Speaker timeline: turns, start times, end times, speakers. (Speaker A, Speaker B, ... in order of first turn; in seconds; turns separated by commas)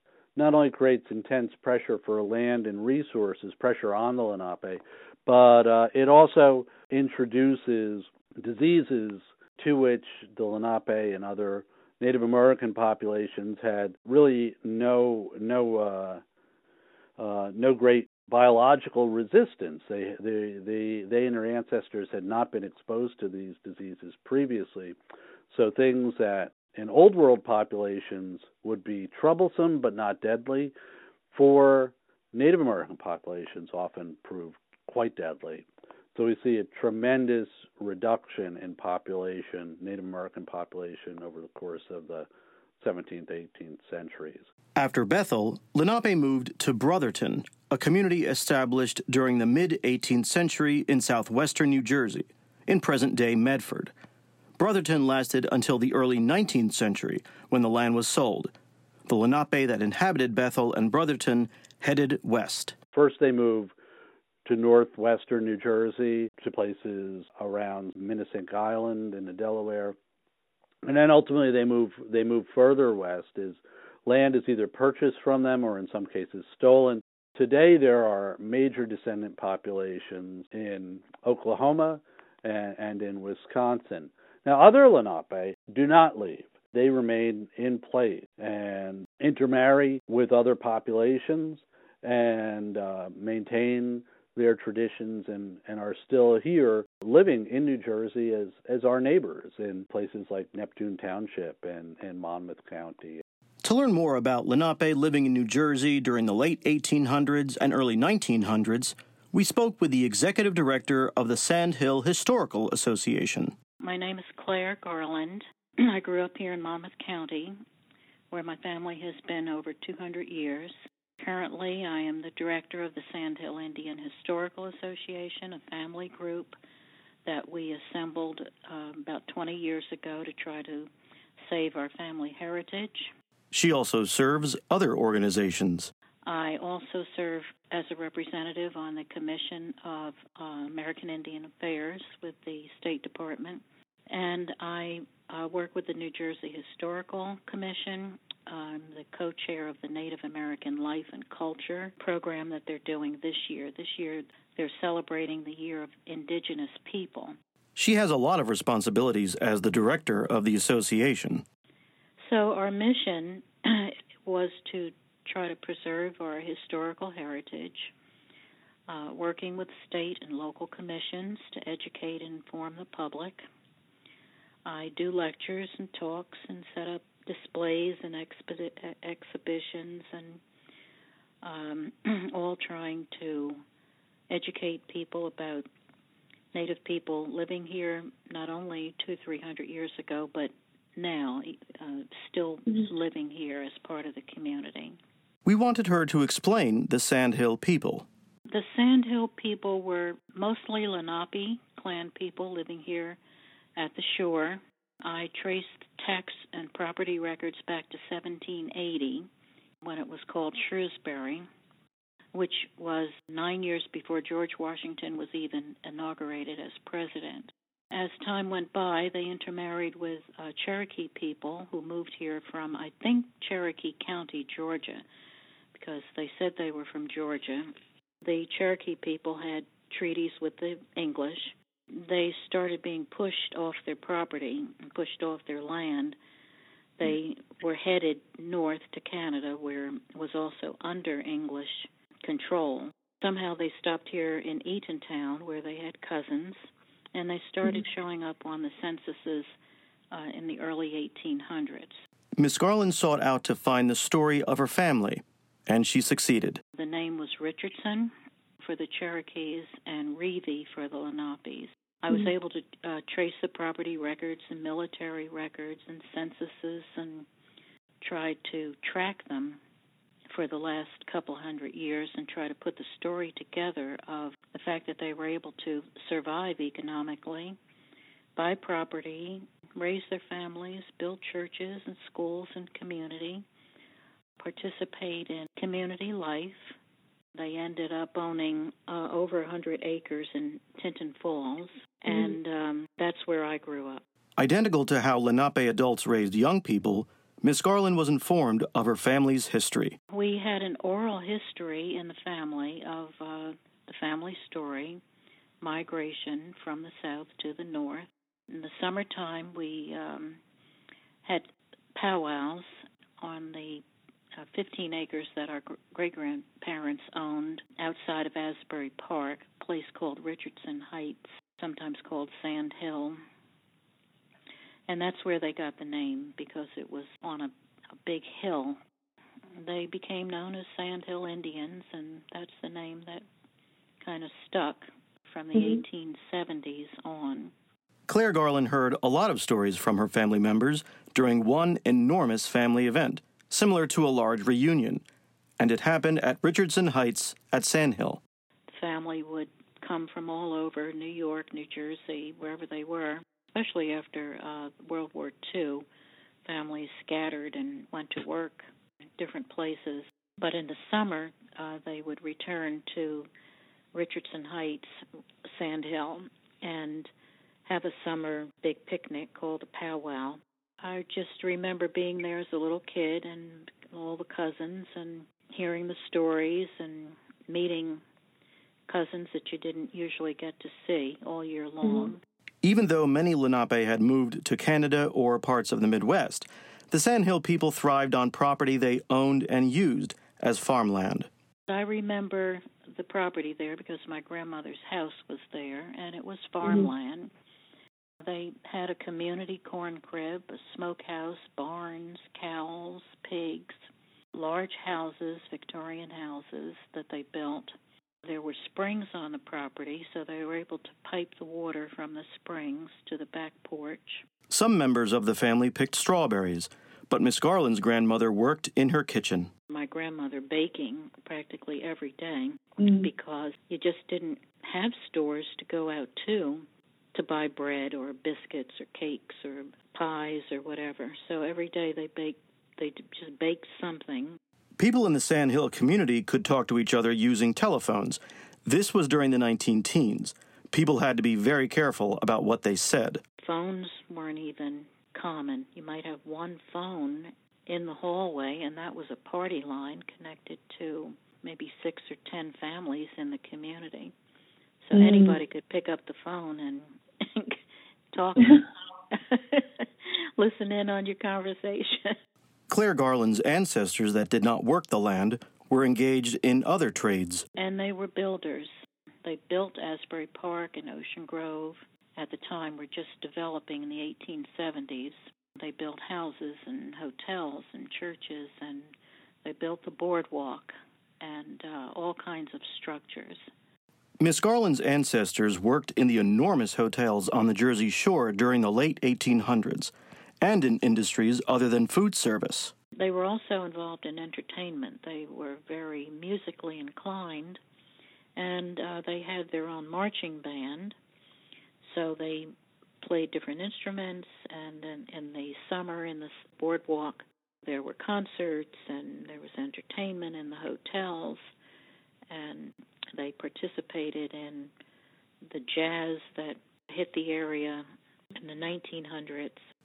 Speaker A: 0.4-16.2, Speaker A: 17.2-25.0, Speaker A: 25.5-30.7, Speaker A: 31.3-42.3, Speaker A: 42.8-44.5, Speaker B: 44.8-53.9, Speaker B: 54.6-58.5, Speaker B: 59.1-62.8, Speaker A: 62.9-63.7, Speaker A: 64.5-70.0, Speaker A: 70.9-103.2, Speaker B: 103.6-113.5, Speaker C: 113.8-117.6, Speaker C: 118.3-126.6, Speaker C: 127.2-130.9, Speaker C: 131.4-133.1, Speaker B: 133.5-135.9, Speaker C: 136.2-157.4, Speaker B: 157.8-161.4, Speaker C: 162.2-167.9, Speaker C: 168.9-173.4, Speaker C: 174.7-180.4, Speaker C: 181.4-183.6, Speaker C: 184.3-185.7, Speaker C: 186.5-195.0, Speaker B: 195.4-198.1, Speaker C: 198.5-203.2, Speaker C: 203.8-209.3, Speaker C: 209.8-211.5, Speaker C: 212.3-225.0, Speaker C: 225.7-236.2, Speaker C: 237.0-249.5, Speaker C: 250.1-252.0, Speaker B: 252.4-256.6, Speaker C: 256.8-267.3, Speaker C: 268.0-269.6, Speaker C: 270.3-277.6, Speaker C: 278.4-283.4, Speaker C: 284.4-286.8, Speaker C: 287.4-294.0, Speaker B: 294.4-300.0, Speaker C: 300.1-305.0, Speaker C: 305.6-310.4, Speaker C: 311.2-313.8, Speaker C: 314.4-323.2, Speaker C: 324.9-327.5, Speaker C: 328.0-328.8, Speaker C: 329.6-333.2, Speaker C: 334.0-337.5, Speaker B: 338.1-345.0, Speaker B: 345.6-348.2, Speaker C: 348.7-355.9, Speaker C: 356.4-358.7, Speaker C: 359.2-363.3, Speaker C: 363.9-367.1, Speaker C: 367.6-378.0, Speaker C: 378.9-382.2, Speaker B: 382.6-391.3, Speaker C: 391.7-397.3, Speaker C: 398.2-403.8, Speaker C: 404.3-414.2, Speaker B: 414.5-419.5, Speaker C: 419.7-434.4, Speaker B: 434.8-443.2, Speaker C: 443.4-454.1, Speaker C: 454.8-462.2, Speaker B: 462.7-467.5, Speaker C: 467.6-468.7, Speaker C: 469.2-478.9, Speaker C: 479.4-483.4, Speaker B: 484.2-492.7, Speaker C: 493.0-497.6, Speaker C: 498.4-501.0, Speaker C: 501.8-511.5, Speaker C: 512.3-514.7, Speaker C: 515.5-519.6